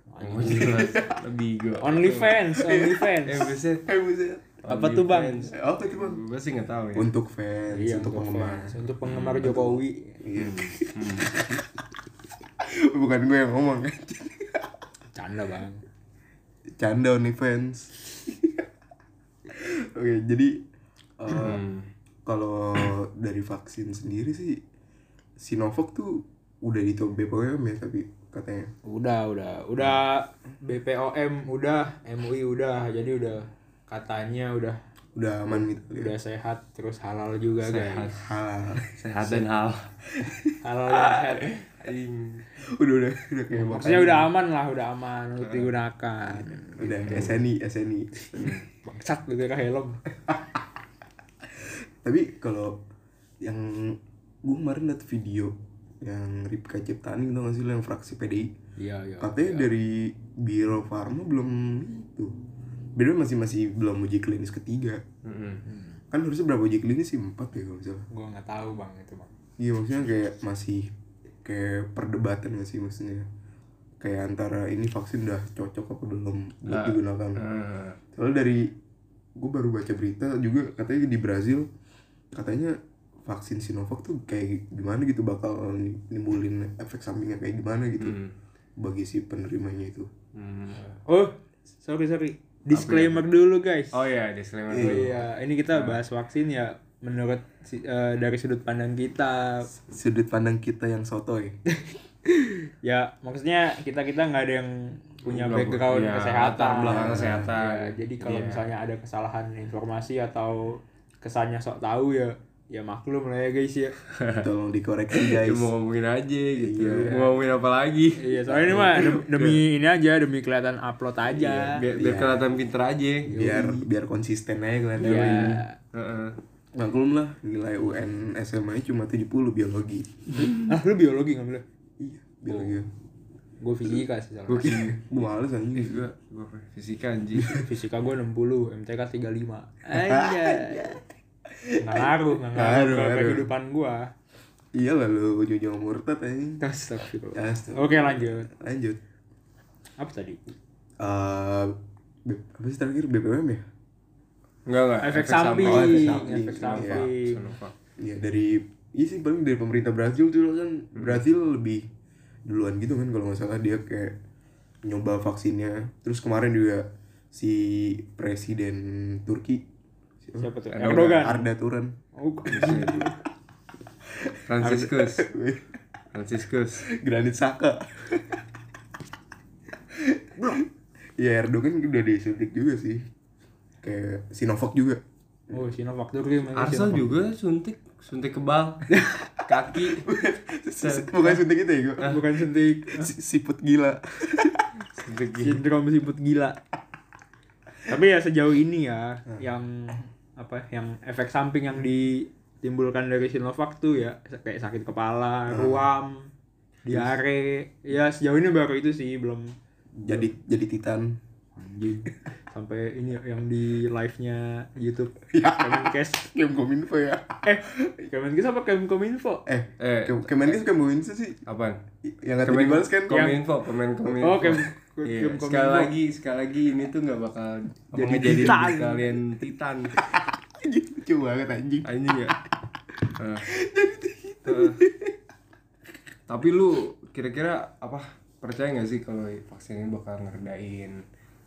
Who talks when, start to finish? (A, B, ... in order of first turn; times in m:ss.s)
0:00.1-0:00.8 A
0:00.2-0:02.4 B
0:00.4-0:01.1 C
0:01.8-0:03.5 A
0:02.6-0:03.1 C
0:03.2-0:03.8 B
0:03.8-0:04.6 C
0:04.6-0:05.5 A
0:04.7-0:07.1 B
0:05.5-0:06.2 C
0:06.9-0:08.8 C
0:07.7-0:10.2 A
0:09.1-0:09.6 B
0:09.4-0:11.6 C
0:10.4-0:11.5 B
0:12.6-0:14.7 C
0:15.1-0:15.8 A
0:16.8-0:18.7 C
0:19.5-0:20.6 C
0:21.2-0:21.6 C
0:21.3-0:21.9 B
0:22.2-0:24.6 C
0:25.4-0:28.7 C
0:28.8-0:34.8 A
0:35.1-0:36.1 C
0:35.5-0:38.2 A
0:37.6-0:38.2 B
0:38.2-0:39.4 C
0:38.9-0:39.9 B
0:40.1-0:40.6 C
0:40.6-0:41.5 A
0:41.7-0:42.4 B
0:42.6-0:44.3 C
0:43.5-0:47.2 A
0:45.4-0:45.7 B
0:46.8-0:48.6 C
0:47.0-0:47.4 B
0:48.4-0:48.6 B
0:48.8-0:50.0 A
0:51.5-0:52.8 C
0:53.4-0:58.5 C
0:58.8-0:59.6 A
0:59.2-1:02.4 C
1:03.0-1:05.0 C
1:05.2-1:05.6 B
1:05.6-1:06.0 A
1:06.1-1:08.1 C
1:08.1-1:09.3 A
1:09.6-1:10.9 C
1:11.4-1:13.2 C
1:14.0-1:17.4 C
1:16.7-1:18.0 B
1:18.1-1:18.7 C
1:19.4-1:21.7 C
1:22.3-1:28.2 C
1:28.0-1:28.3 B
1:28.8-1:30.1 C
1:30.4-1:30.9 B
1:31.0-1:34.0 A
1:32.7-1:33.2 B
1:33.9-1:36.0 B
1:34.7-1:35.1 C
1:34.8-1:39.7 A
1:39.8-1:41.6 C
1:42.3-1:53.9 A
1:45.2-1:48.7 B
1:46.8-1:47.6 C
1:54.2-1:54.5 B
1:54.3-1:55.7 C
1:55.1-1:59.6 B
1:56.6-1:57.3 C
1:58.2-2:01.8 A
1:58.5-1:59.2 C
2:01.3-2:03.3 B
2:01.9-2:02.5 C
2:03.3-2:03.9 A
2:03.3-2:05.6 C
2:05.0-2:05.8 A
2:05.1-2:06.4 B
2:06.8-2:10.1 C
2:10.6-2:11.6 A
2:12.0-2:12.9 C
2:12.5-2:12.8 A
2:13.6-2:14.9 A
2:14.5-2:15.0 B
2:14.6-2:16.0 C
2:15.7-2:17.6 B
2:17.5-2:21.0 A
2:19.9-2:23.5 C
2:21.8-2:24.1 A
2:24.7-2:26.6 C
2:26.6-2:28.5 A
2:27.3-2:29.0 C
2:30.0-2:30.4 A
2:31.0-2:33.6 C
2:34.7-2:37.7 B
2:35.0-2:37.4 A
2:35.6-2:37.1 C
2:38.0-2:41.9 C
2:41.0-2:41.2 B
2:42.5-2:44.2 C
2:44.8-2:49.6 C
2:50.2-2:50.5 C
2:50.4-2:51.4 A
2:50.7-2:51.4 B
2:51.1-2:52.0 C
2:52.1-2:53.1 A
2:52.5-2:53.1 B
2:52.6-2:52.9 C
2:54.2-2:55.8 C
2:54.4-2:55.3 B
2:54.6-2:54.9 A
2:56.1-2:56.8 B
2:56.8-2:58.4 C
2:59.9-3:00.7 C
3:01.2-3:03.1 C
3:03.8-3:05.6 C
3:05.5-3:07.2 A
3:06.6-3:08.9 B
3:08.9-3:09.2 A
3:09.5-3:10.1 B
3:09.8-3:12.2 C
3:10.8-3:11.2 B
3:12.0-3:13.1 A
3:12.9-3:14.7 C
3:14.9-3:15.6 B
3:15.4-3:16.6 A
3:17.8-3:26.3 A
3:25.5-3:25.9 C
3:26.8-3:29.6 A
3:26.9-3:27.1 C
3:30.0-3:31.2 C
3:31.6-3:36.3 A
3:35.3-3:37.9 C
3:37.4-3:39.4 A
3:39.4-3:41.4 C
3:39.8-3:40.6 B
3:41.5-3:41.8 B
3:42.0-3:43.4 C
3:42.4-3:49.9 B
3:43.1-3:43.4 A
3:44.2-3:45.9 A
3:44.2-3:44.6 C
3:47.9-3:49.1 A
3:50.0-3:52.5 C
3:51.8-3:52.4 B
3:53.0-3:55.2 C
3:53.2-3:53.5 B
3:54.4-3:54.8 B
3:56.3-4:01.0 B